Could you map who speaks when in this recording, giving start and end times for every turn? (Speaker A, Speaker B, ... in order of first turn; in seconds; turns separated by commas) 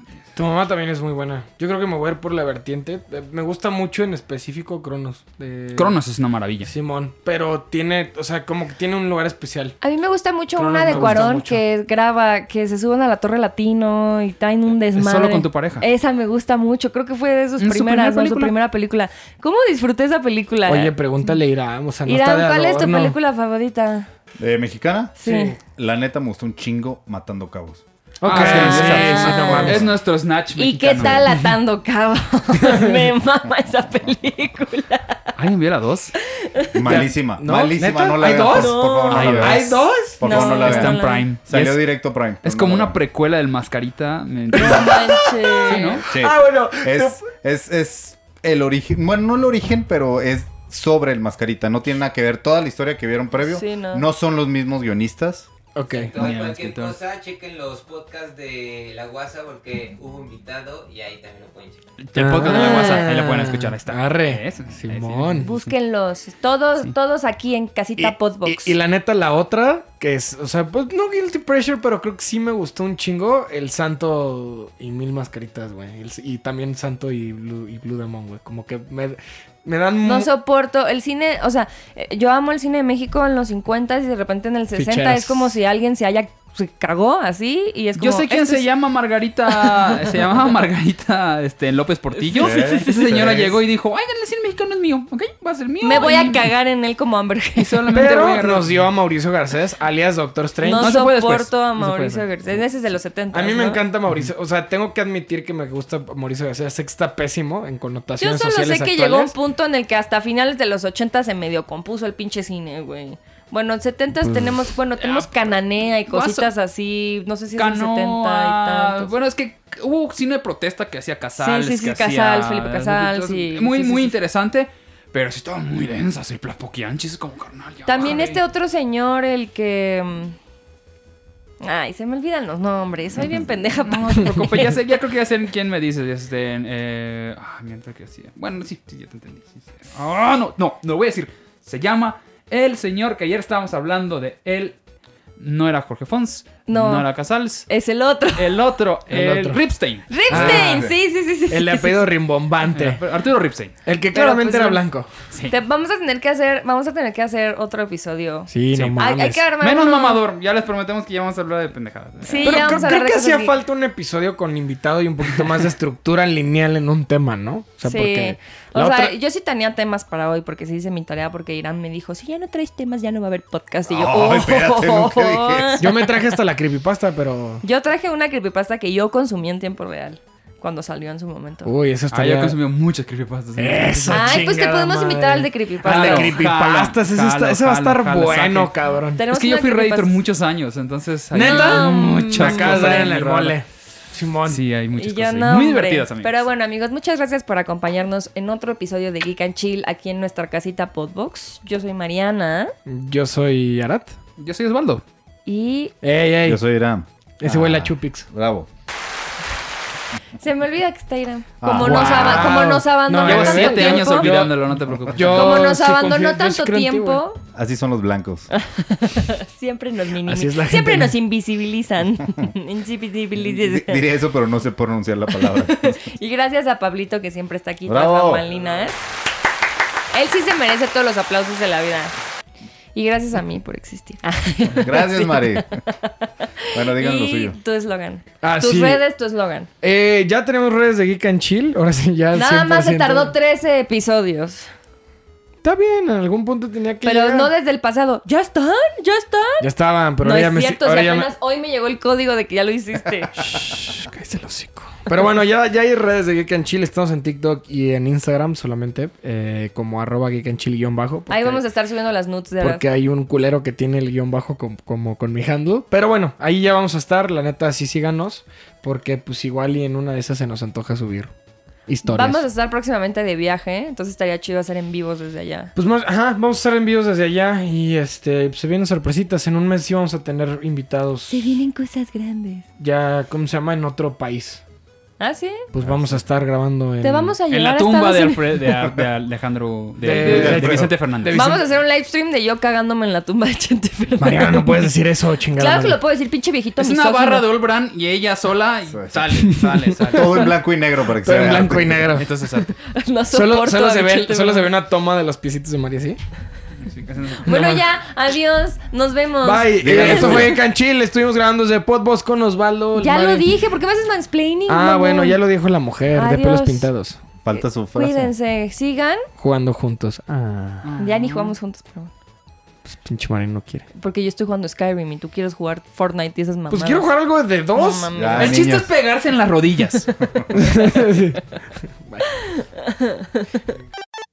Speaker A: 0.3-6.0, Speaker B: 5.7-6.7, Speaker A: 6.7-9.8, Speaker C: 9.8-21.3, Speaker A: 10.5-11.6, Speaker B: 10.9-11.2, Speaker B: 14.9-15.8, Speaker B: 17.6-18.5, Speaker A: 20.6-23.1, Speaker C: 22.1-24.1, Speaker D: 24.4-27.8, Speaker C: 25.2-25.6, Speaker A: 25.2-25.6, Speaker A: 28.2-29.9, Speaker B: 28.2-31.3, Speaker C: 28.3-29.9, Speaker C: 30.5-35.3, Speaker B: 35.4-36.1, Speaker C: 36.4-36.8, Speaker D: 36.7-43.0, Speaker A: 36.9-40.3, Speaker C: 38.2-39.4, Speaker B: 39.1-46.0, Speaker C: 40.2-41.3, Speaker C: 44.5-46.0, Speaker A: 44.5-47.2, Speaker D: 46.1-55.5, Speaker C: 53.4-54.0, Speaker A: 55.7-56.2, Speaker E: 55.9-61.8, Speaker B: 56.1-57.0, Speaker B: 62.0-65.7, Speaker A: 62.1-65.5, Speaker C: 62.5-63.1, Speaker C: 65.4-68.7, Speaker A: 68.0-80.3, Speaker C: 80.0-88.7, Speaker A: 84.7-85.6, Speaker B: 88.0-96.5, Speaker C: 89.5-90.0, Speaker C: 92.2-93.3, Speaker D: 92.4-93.5, Speaker C: 95.8-98.1, Speaker B: 97.6-98.7, Speaker A: 97.9-101.0, Speaker C: 100.6-103.8, Speaker B: 100.8-102.4, Speaker A: 103.3-109.3, Speaker C: 108.2-119.1, Speaker B: 115.0-116.5, Speaker B: 117.6-128.4, Speaker C: 121.4-124.1, Speaker C: 127.8-130.4, Speaker C: 131.6-134.7, Speaker B: 133.8-144.7, Speaker B: 145.4-147.7, Speaker C: 146.7-147.1, Speaker C: 147.7-148.6, Speaker B: 148.3-150.9, Speaker A: 149.1-149.6, Speaker C: 150.1-152.1, Speaker A: 150.3-150.9, Speaker A: 151.5-153.0, Speaker B: 152.7-153.7, Speaker A: 153.8-155.1, Speaker C: 154.1-154.8, Speaker C: 155.5-160.2, Speaker A: 158.5-159.4, Speaker B: 159.6-162.9, Speaker C: 162.2-163.5, Speaker A: 162.4-169.1, Speaker C: 167.8-176.0, Speaker D: 173.9-175.9, Speaker A: 175.8-177.6, Speaker C: 177.6-181.7, Speaker A: 181.6-182.6, Speaker B: 182.1-184.4, Speaker A: 183.6-189.2, Speaker C: 184.1-186.4, Speaker B: 185.8-188.7, Speaker C: 189.1-190.2, Speaker B: 189.3-193.6, Speaker A: 191.3-194.6, Speaker C: 191.3-193.2, Speaker B: 194.4-196.4, Speaker C: 195.0-202.7, Speaker A: 202.8-204.1, Speaker B: 204.4-205.0, Speaker C: 205.4-205.9, Speaker A: 206.0-206.6, Speaker D: 206.4-208.7, Speaker A: 207.4-208.3, Speaker C: 210.4-214.5, Speaker D: 211.6-212.6, Speaker A: 211.7-217.2, Speaker B: 213.2-215.7, Speaker C: 215.3-217.4, Speaker D: 217.5-218.5, Speaker C: 218.5-224.0, Speaker A: 220.2-221.1, Speaker D: 223.4-226.1, Speaker C: 225.3-229.0, Speaker D: 227.8-228.4, Speaker C: 230.1-232.1, Speaker C: 232.9-239.7, Speaker D: 234.6-235.8, Speaker D: 236.7-237.6, Speaker A: 238.4-239.0, Speaker A: 239.8-243.3, Speaker C: 242.3-244.7, Speaker A: 245.6-247.5, Speaker C: 247.0-249.7, Speaker A: 249.6-251.3, Speaker C: 250.2-253.3, Speaker A: 253.4-261.6, Speaker C: 261.3-262.8, Speaker A: 262.6-271.3, Speaker A: 271.9-272.4, Speaker C: 272.0-275.7, Speaker A: 275.7-281.5, Speaker C: 281.3-282.6, Speaker A: 282.8-284.6, Speaker C: 285.2-285.6, Speaker A: 285.7-287.4, Speaker D: 285.8-286.2, Speaker C: 287.0-288.6, Speaker B: 287.5-291.5, Speaker A: 290.0-291.7, Speaker C: 290.1-290.6, Speaker D: 290.2-290.9, Speaker C: 291.3-294.9, Speaker A: 294.2-296.0, Speaker C: 295.6-297.5, Speaker B: 296.8-300.5, Speaker D: 298.9-299.5, Speaker A: 300.1-300.5, Speaker D: 300.1-302.1, Speaker A: 301.2-302.2, Speaker B: 301.4-302.7, Speaker C: 302.8-304.7, Speaker A: 303.3-306.2, Speaker B: 306.8-307.9, Speaker C: 307.4-310.5, Speaker A: 309.4-313.5, Speaker D: 309.8-310.5, Speaker C: 312.9-315.4, Speaker A: 314.7-317.2, Speaker C: 316.1-316.9, Speaker D: 317.4-318.3, Speaker C: 317.5-319.3, Speaker A: 319.4-320.9, Speaker B: 320.8-321.5, Speaker C: 321.0-322.1, Speaker A: 322.8-323.9, Speaker C: 323.9-327.1, Speaker A: 326.7-328.5, Speaker C: 327.7-328.6, Speaker D: 328.1-328.9, Speaker B: 328.4-330.9, Speaker D: 330.2-330.5, Speaker A: 330.5-331.4, Speaker A: 332.0-332.3, Speaker C: 332.4-333.6